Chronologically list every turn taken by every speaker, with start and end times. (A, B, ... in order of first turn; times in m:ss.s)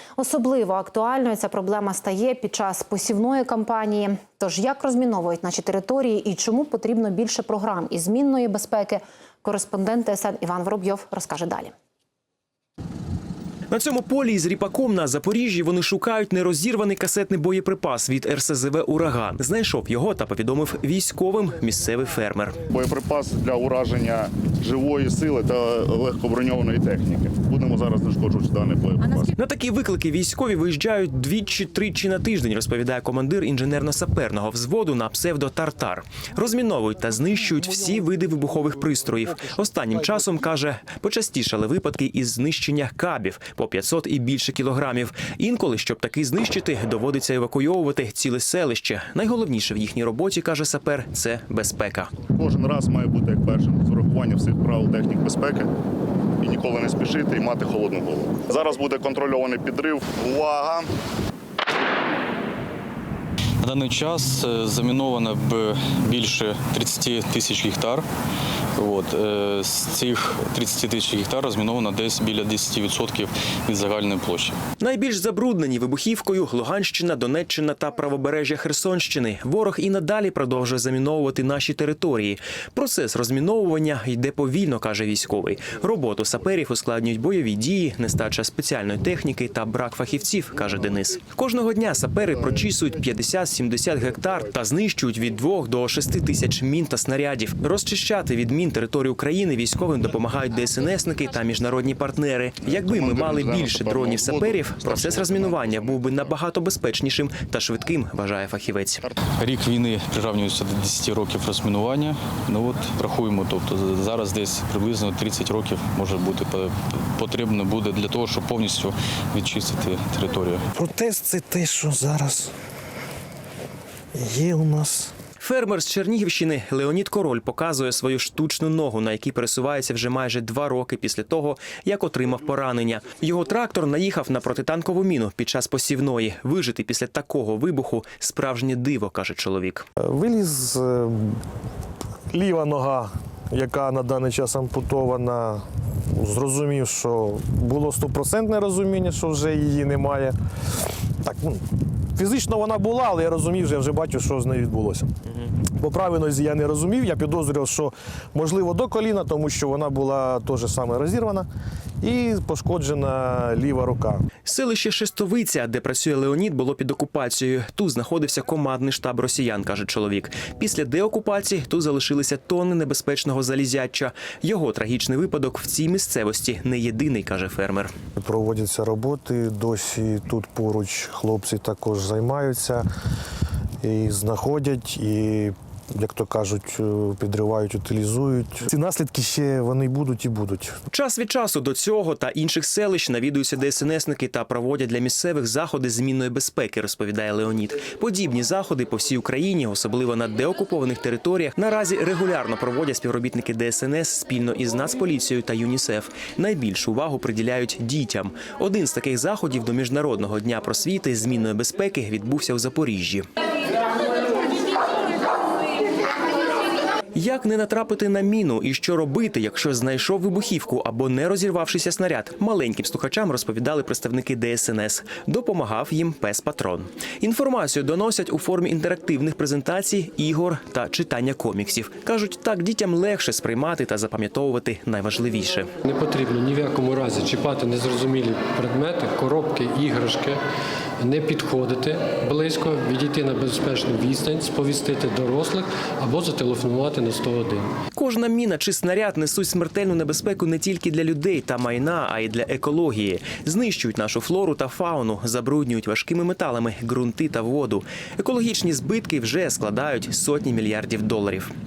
0:00.2-0:11.7 A
0:13.7-0:22.7 B
0:22.7-0:29.3 C
0:29.4-0:52.1 B
0:52.3-0:55.7 C
0:56.4-1:00.9 C
1:03.6-1:08.0 D
1:08.8-1:14.6 D
1:14.8-1:49.0 B
1:42.7-1:46.4 C
1:49.4-2:00.6 D
2:00.7-2:02.5 E
2:04.2-2:05.1 E
2:05.4-2:19.8 B
2:20.0-2:21.4 E
2:22.3-2:30.3 E
2:31.2-2:35.1 E
2:35.8-2:41.5 E
2:42.0-2:44.2 E
2:44.4-2:57.9 B
2:58.2-3:02.8 E
3:03.8-3:10.8 E
3:10.9-3:33.3 B
3:37.2-3:55.7 B
3:55.8-4:00.4 F
4:01.0-4:07.7 F
4:07.9-4:21.5 B